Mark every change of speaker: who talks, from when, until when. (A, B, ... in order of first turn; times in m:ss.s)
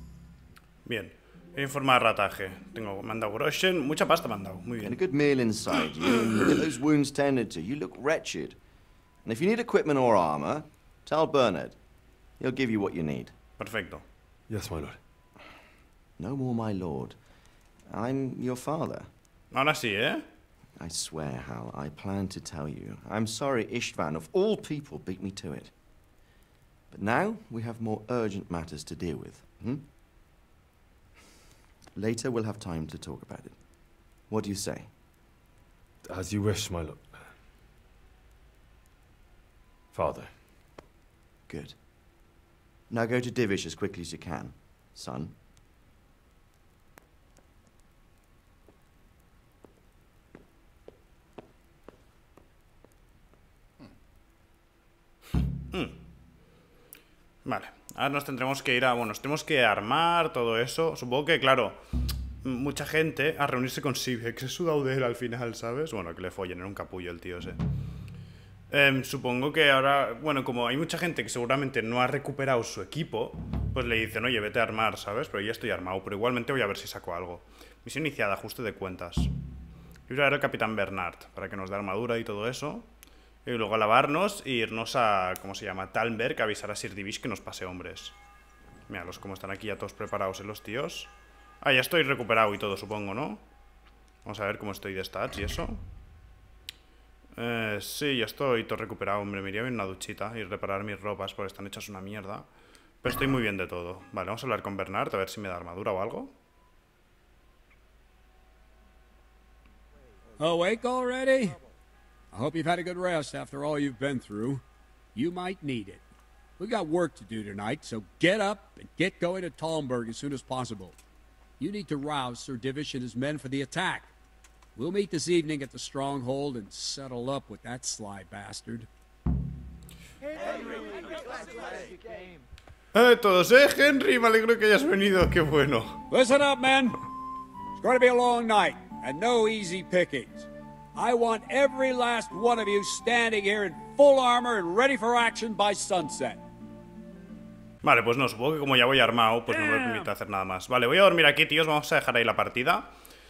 0:00.8-0:05.0 A
0:04.8-0:08.6 B
0:09.2-0:11.8 B
0:12.4-0:13.3 B
0:13.6-0:14.0 A
0:14.5-0:15.0 C
0:16.2-0:17.2 B
0:17.9-0:19.1 B
0:19.5-0:20.2 A
0:20.8-0:25.7 B
0:26.9-0:29.9 B
0:32.0-0:33.6 B
0:34.3-0:34.9 B
0:36.1-0:37.2 C
0:39.9-0:40.3 C
0:41.5-0:41.8 B
0:42.9-0:45.3 B
0:55.7-0:56.0 A
0:57.4-1:01.8 A
1:02.4-1:07.6 A
1:08.7-1:19.3 A
1:20.1-1:22.9 A
1:23.4-1:28.2 A
1:28.9-1:33.4 A
1:34.2-1:35.8 A
1:37.4-1:42.5 A
1:43.0-1:46.3 A
1:50.4-1:51.6 D
1:52.3-1:54.6 D
1:55.1-1:56.0 D
1:56.6-2:01.0 D
2:01.6-2:04.1 D
2:04.8-2:08.9 D
2:12.9-2:16.0 A
2:16.1-2:17.0 D
2:17.7-2:26.4 D
2:27.8-2:32.9 A